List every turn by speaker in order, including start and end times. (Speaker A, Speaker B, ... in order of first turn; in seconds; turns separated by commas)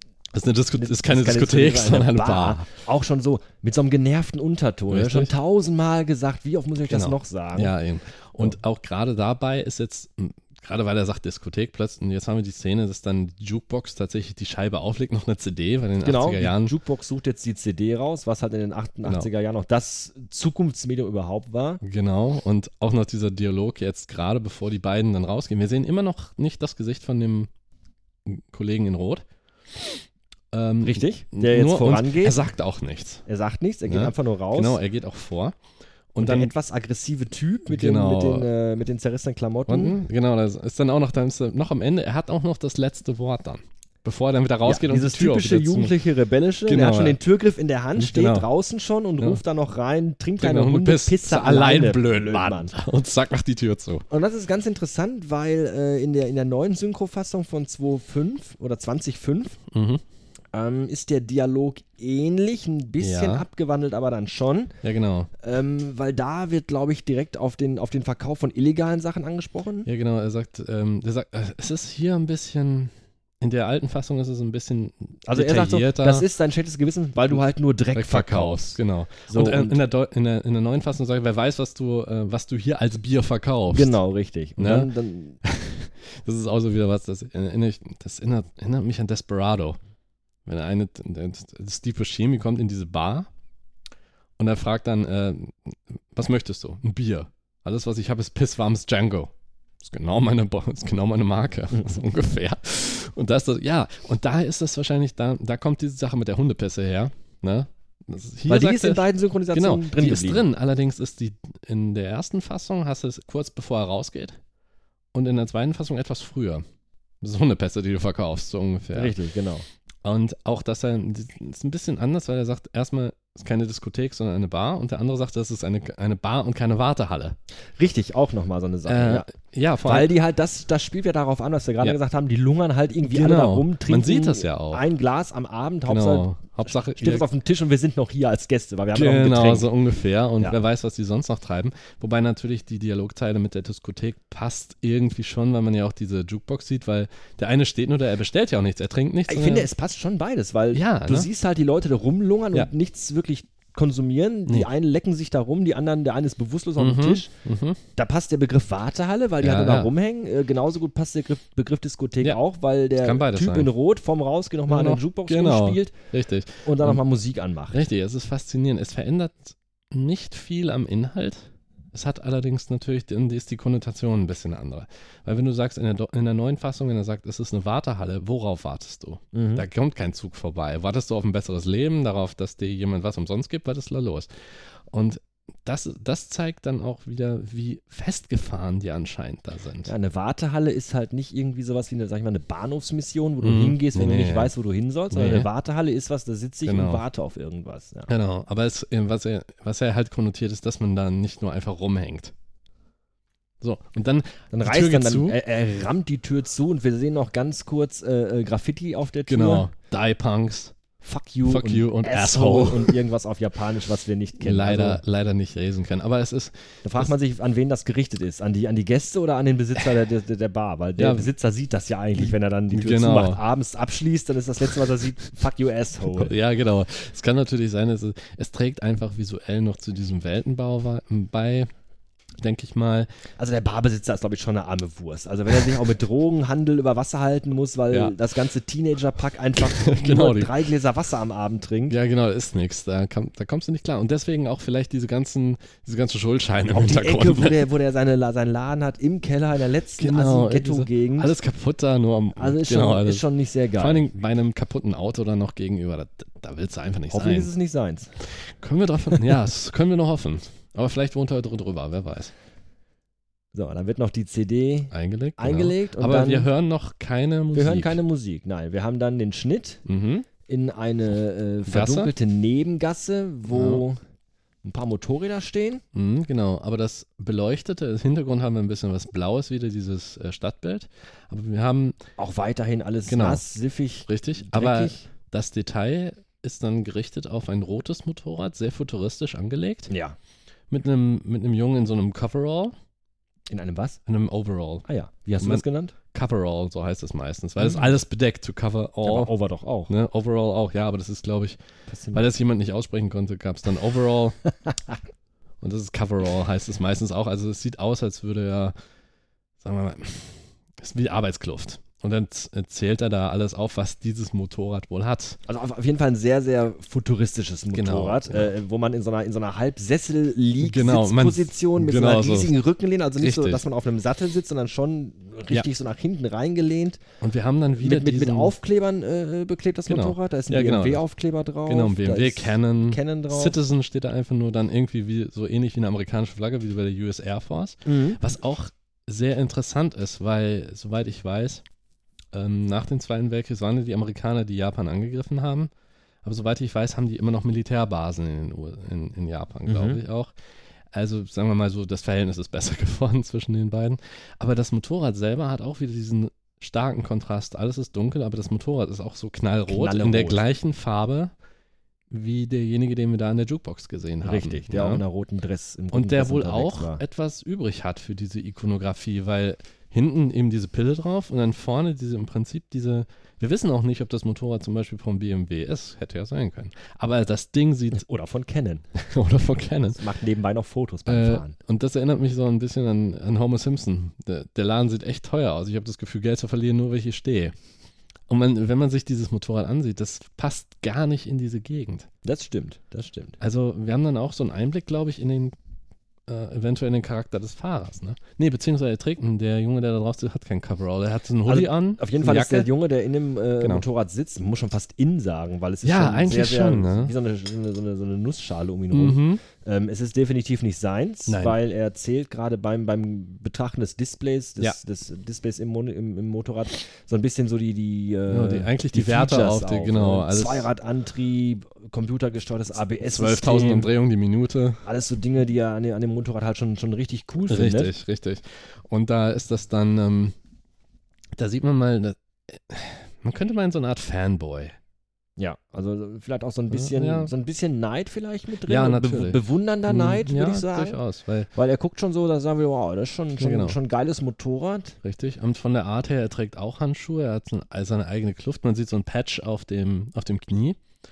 Speaker A: 0.3-2.7, Speaker B: 0.8-7.7, Speaker A: 4.9-5.3, Speaker A: 6.9-16.7, Speaker B: 16.0-21.8, Speaker A: 21.8-27.5, Speaker A: 28.2-29.2, Speaker A: 30.5-33.2, Speaker B: 30.8-32.4, Speaker B: 33.3-34.8, Speaker A: 33.9-35.6, Speaker A: 36.1-36.5, Speaker B: 36.2-40.0, Speaker A: 37.7-38.5, Speaker A: 39.7-46.0, Speaker B: 44.6-52.7, Speaker A: 46.7-47.2, Speaker A: 48.0-48.5, Speaker A: 50.4-54.0, Speaker B: 54.1-59.6, Speaker A: 59.7-60.0, Speaker B: 60.5-64.7, Speaker A: 63.0-63.5, Speaker A: 64.8-65.3, Speaker B: 65.4-69.9, Speaker A: 69.8-76.2, Speaker B: 75.3-79.8, Speaker A: 77.9-84.0, Speaker B: 83.7-85.4, Speaker A: 84.6-84.9, Speaker A: 85.4-89.8, Speaker A: 90.4-93.3, Speaker A: 94.4-114.4, Speaker B: 108.5-110.5, Speaker A: 115.1-116.6, Speaker A: 117.2-119.1, Speaker B: 118.9-119.7, Speaker A: 120.0-127.4, Speaker B: 127.8-129.3, Speaker A: 128.8-130.1, Speaker B: 129.8-136.3, Speaker A: 133.0-134.8, Speaker A: 135.9-137.3, Speaker B: 136.9-139.7, Speaker A: 138.9-149.7, Speaker B: 149.3-157.3, Speaker A: 150.7-151.3, Speaker A: 156.8-157.8, Speaker B: 157.9-165.9, Speaker A: 159.4-159.9, Speaker A: 163.0-163.7, Speaker A: 164.7-167.0, Speaker B: 166.6-167.8, Speaker A: 167.7-189.9, Speaker B: 179.3-179.7, Speaker B: 189.8-198.1, Speaker A: 193.4-194.5, Speaker A: 195.1-195.5, Speaker A: 196.7-197.0, Speaker A: 198.1-202.3, Speaker A: 203.6-205.4, Speaker B: 204.5-209.7, Speaker A: 209.3-210.7, Speaker B: 211.0-215.0, Speaker A: 211.4-213.0, Speaker A: 214.4-217.1, Speaker B: 216.8-226.3, Speaker A: 221.0-221.3, Speaker A: 222.2-223.4, Speaker A: 226.1-231.7, Speaker A: 232.4-233.1, Speaker B: 233.4-242.0, Speaker A: 237.9-238.2, Speaker A: 239.6-240.6, Speaker A: 241.9-247.7, Speaker B: 246.7-251.3, Speaker A: 250.0-257.5, Speaker B: 252.3-254.1, Speaker B: 257.1-258.1, Speaker A: 258.2-262.3, Speaker B: 263.5-266.5, Speaker A: 264.9-268.0, Speaker B: 267.5-269.8, Speaker A: 269.9-270.3, Speaker B: 270.4-274.0, Speaker A: 271.7-272.1, Speaker A: 273.5-273.8, Speaker B: 274.6-275.8, Speaker A: 275.9-282.0, Speaker B: 282.2-285.1, Speaker A: 283.1-283.4, Speaker A: 284.1-289.9, Speaker B: 289.9-290.2, Speaker A: 290.7-292.7, Speaker B: 293.5-294.0, Speaker A: 294.1-294.8, Speaker B: 294.9-295.9, Speaker A: 295.4-299.3, Speaker B: 297.6-297.9, Speaker B: 299.0-299.9, Speaker A: 299.9-301.6, Speaker B: 301.9-302.2, Speaker A: 302.1-304.4, Speaker A: 305.6-308.7, Speaker A: 309.6-315.4, Speaker B: 315.5-327.0, Speaker A: 317.7-318.5, Speaker A: 320.6-322.5, Speaker A: 323.2-323.6, Speaker A: 327.2-328.5, Speaker B: 327.8-333.6, Speaker A: 329.9-331.0, Speaker A: 331.6-341.6, Speaker B: 337.9-338.2, Speaker A: 342.3-345.7, Speaker A: 346.2-350.3, Speaker B: 349.6-350.0, Speaker A: 350.9-361.3, Speaker B: 359.7-360.4, Speaker A: 362.1-365.0, Speaker B: 364.2-367.0, Speaker A: 365.9-378.0, Speaker B: 377.9-378.8, Speaker A: 378.9-380.0, Speaker B: 379.9-381.6, Speaker A: 381.1-387.5, Speaker A: 388.3-392.1, Speaker B: 392.2-393.4, Speaker A: 393.4-395.5, Speaker A: 396.3-402.7, Speaker B: 401.4-423.9, Speaker A: 405.8-407.1, Speaker A: 408.9-409.4, Speaker A: 411.3-411.6, Speaker A: 418.3-420.7, Speaker A: 423.0-424.8, Speaker B: 424.8-427.9, Speaker A: 427.5-430.3, Speaker A: 431.3-434.8, Speaker B: 435.4-441.0, Speaker A: 436.7-437.3, Speaker A: 438.6-441.5, Speaker B: 441.5-445.0, Speaker A: 443.4-443.8, Speaker A: 445.0-450.8